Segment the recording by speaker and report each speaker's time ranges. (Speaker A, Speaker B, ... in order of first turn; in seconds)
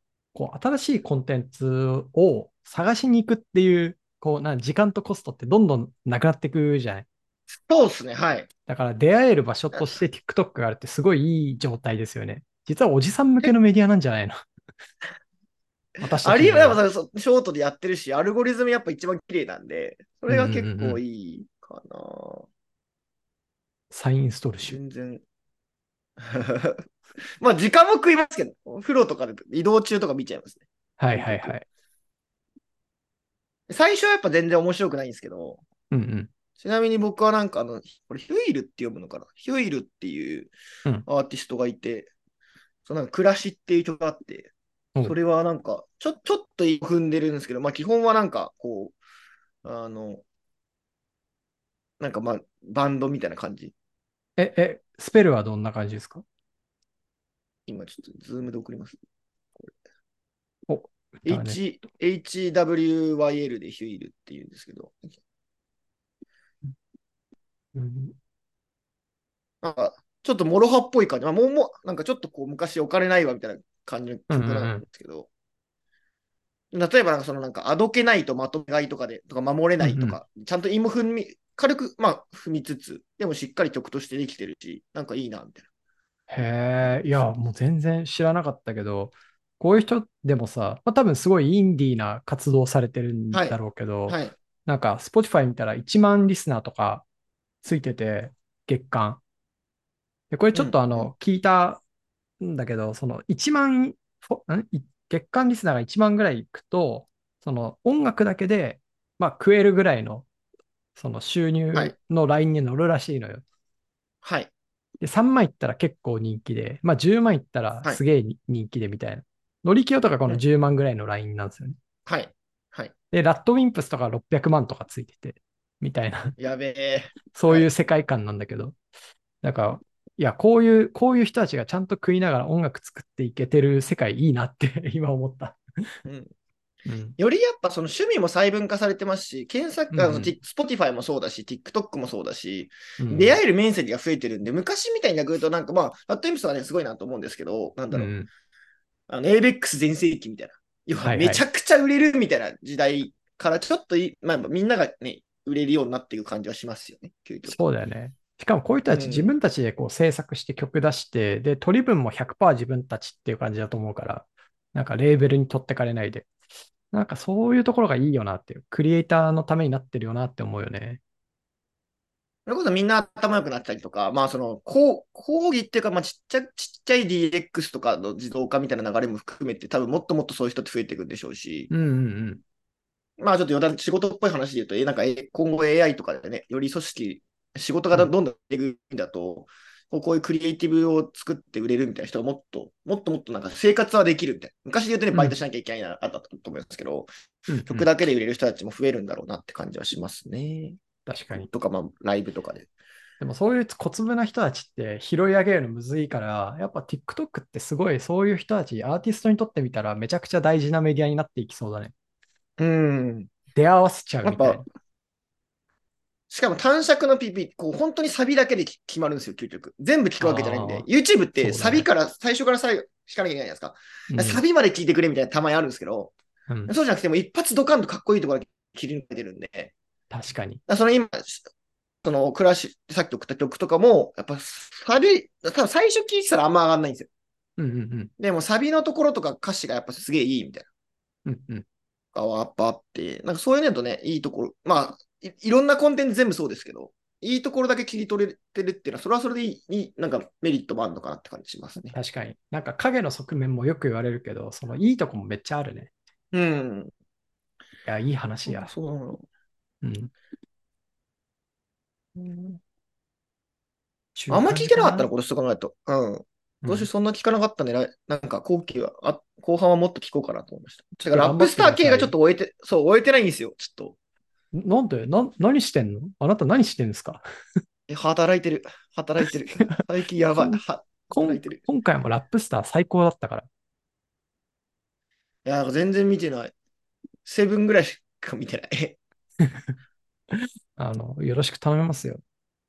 Speaker A: 0.3-7.1, 8.7-14.4, 16.0-16.8, 20.3-21.0, 23.9-24.8, 31.0-31.6, 35.9-36.3, 54.4-56.2, 60.7-61.6, 67.8-68.2, 74.3-74.8, 79.8-80.2, 86.3-97.1, 97.6-99.2, 100.3-101.8, 102.4-110.3, 111.0-113.4, 115.0-121.8, 123.1-126.4, 127.3-128.8, 129.4-135.6, 136.9-137.2, 139.9-140.4, 143.0-143.4, 147.9-148.3, 151.0-151.4, 157.5-166.3, 166.9-171.0, 181.7-182.4, 197.5-197.9, 201.1-201.5, 203.2-211.9, 213.6-214.7, 220.2-220.9, 221.4-221.9, 224.1-224.4, 230.1-230.6, 237.6-238.1, 241.3-241.7, 251.9-255.9, 257.9-258.7, 259.8-260.1, 264.2-265.1, 266.6-266.9, 271.0-272.1, 274.6-277.2, 280.4-283.5, 290.3-292.2
Speaker B: 7.6-8.5, 16.1-22.5, 24.6-25.2, 26.2-26.9, 27.4-31.6, 33.7-35.6, 36.6-40.5, 41.1-42.1, 42.9-44.5, 45.0-49.0, 49.6-50.2, 52.0-53.7, 57.7-59.0, 61.3-65.1, 69.6-75.3, 76.7-85.7, 93.3-94.3, 100.5-101.1, 114.2-114.5, 122.1-122.9, 126.4-127.7, 136.1-136.3, 137.2-148.1, 149.1-157.6, 158.9-159.3, 172.5-181.7, 183.2-197.1, 197.6-200.8, 201.3-202.7, 212.6-213.3, 214.2-214.7, 216.3-226.1, 226.7-229.7, 230.7-231.5, 232.0-237.1, 238.2-240.7, 242.1-252.0, 256.3-256.9, 258.5-259.2, 262.2-262.6, 264.3-274.0, 277.9-281.6, 285.4-286.5, 287.2-289.0